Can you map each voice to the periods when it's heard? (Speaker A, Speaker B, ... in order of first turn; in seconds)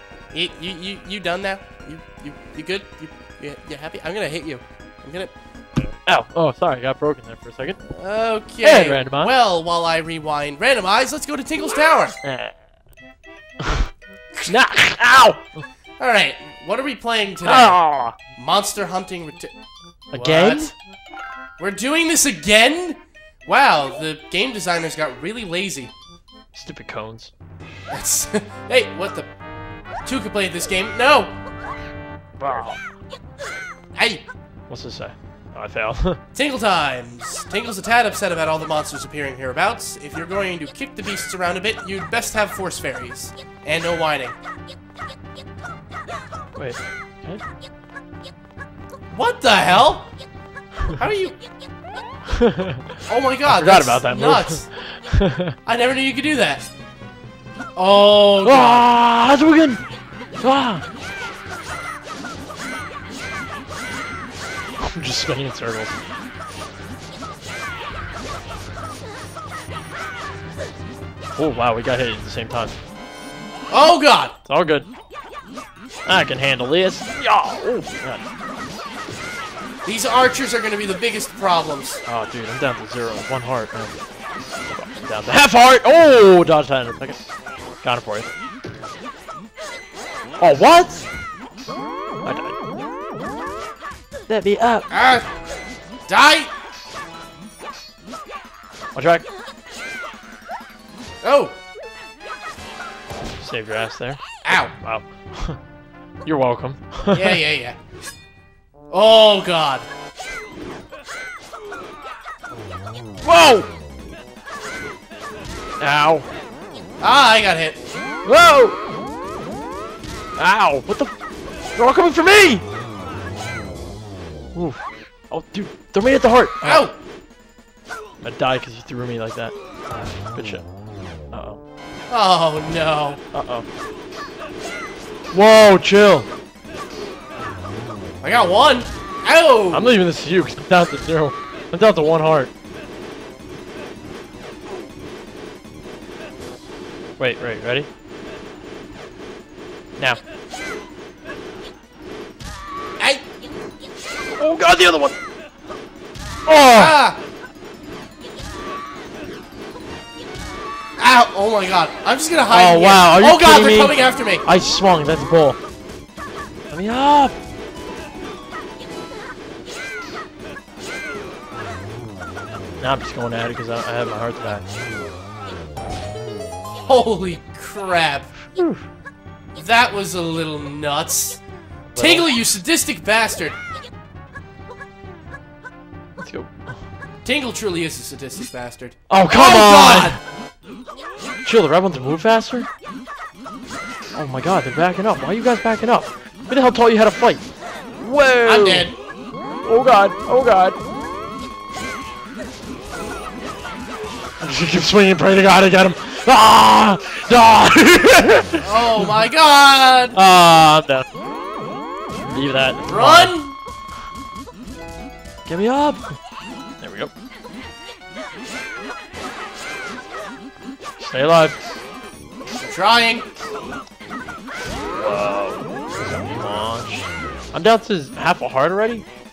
Speaker A: 0.3-5.3, 7.9-12.1, 16.0-17.8, 18.4-19.5, 20.1-20.7, 21.6-25.9, 27.9-29.3, 30.0-31.3, 33.9-34.3, 36.3-44.4, 49.1-50.1, 51.0-51.4, 53.1-54.6, 55.6-56.7, 57.8-58.9, 73.7-74.3, 79.8-82.0, 94.9-95.3, 96.1-96.5, 101.2-101.5, 104.4-104.7, 107.1-107.8, 108.9-109.9, 117.0-117.8, 126.6-127.0, 132.1-133.2, 138.2-139.9, 156.7-157.2, 161.0-164.4, 176.8-178.3, 179.5-181.4, 182.0-183.6, 187.2-190.2, 198.4-198.9, 208.6-210.2, 212.9-213.6, 222.6-223.3
Speaker B: 5.8-7.8, 8.6-9.3, 12.2-12.6, 13.6-13.9, 14.4-15.6, 17.4-18.2, 20.1-20.7, 26.5-27.3, 32.4-32.8, 34.7-36.2, 46.5-47.4, 52.3-55.6, 58.4-59.8, 60.4-60.8, 64.8-66.0, 71.3-72.7, 74.5-74.9, 76.0-78.2, 82.0-84.0, 84.7-87.3, 87.8-88.3, 90.4-91.0, 92.2-92.6, 94.3-94.9, 98.9-99.2, 103.4-104.2, 104.7-105.6, 106.2-107.4, 113.2-113.7, 115.8-116.3, 118.2-118.8, 120.4-121.1, 121.7-122.6, 124.5-126.8, 128.2-129.5, 130.3-130.7, 131.3-131.6, 133.3-133.7, 135.3-136.3, 139.7-142.5, 147.2-147.9, 154.3-155.2, 156.5-157.0, 162.5-165.6, 166.7-167.3, 172.8-174.6, 178.6-178.8, 181.9-182.3, 186.2-186.8, 189.1-190.2, 191.4-192.7, 194.2-197.4, 198.0-198.9, 199.6-200.8, 204.4-209.1, 210.1-211.1, 212.2-213.3, 215.4-216.2, 216.8-217.1, 221.0-221.6, 224.9-229.1